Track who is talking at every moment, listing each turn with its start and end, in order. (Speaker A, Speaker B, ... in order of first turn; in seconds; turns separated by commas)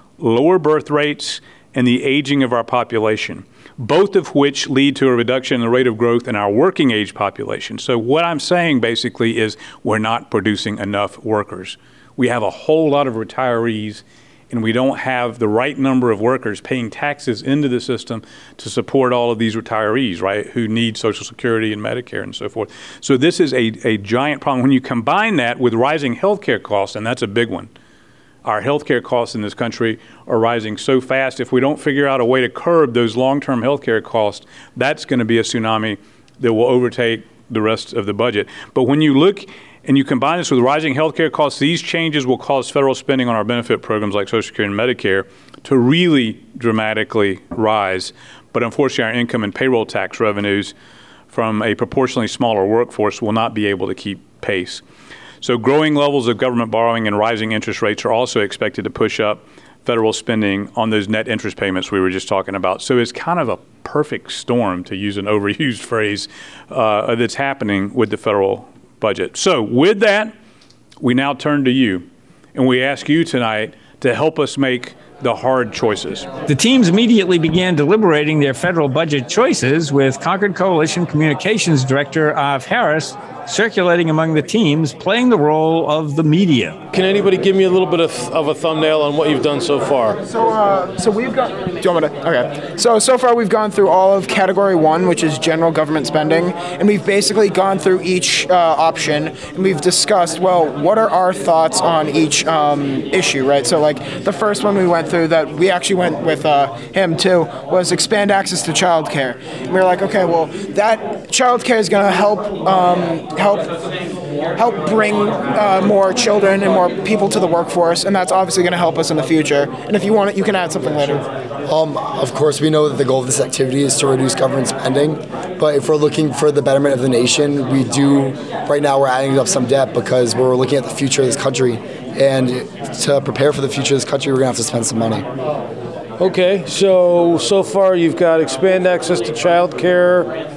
Speaker A: 0.2-27.7, Speaker A: 28.4-50.7, Speaker A: 51.3-54.8, Speaker A: 55.4-70.3, Speaker A: 71.0-76.3, Speaker B: 76.5-86.8, Speaker C: 86.9-90.2, Speaker D: 90.3-113.7, Speaker D: 114.5-121.2, Speaker E: 121.7-135.2, Speaker C: 136.2-140.3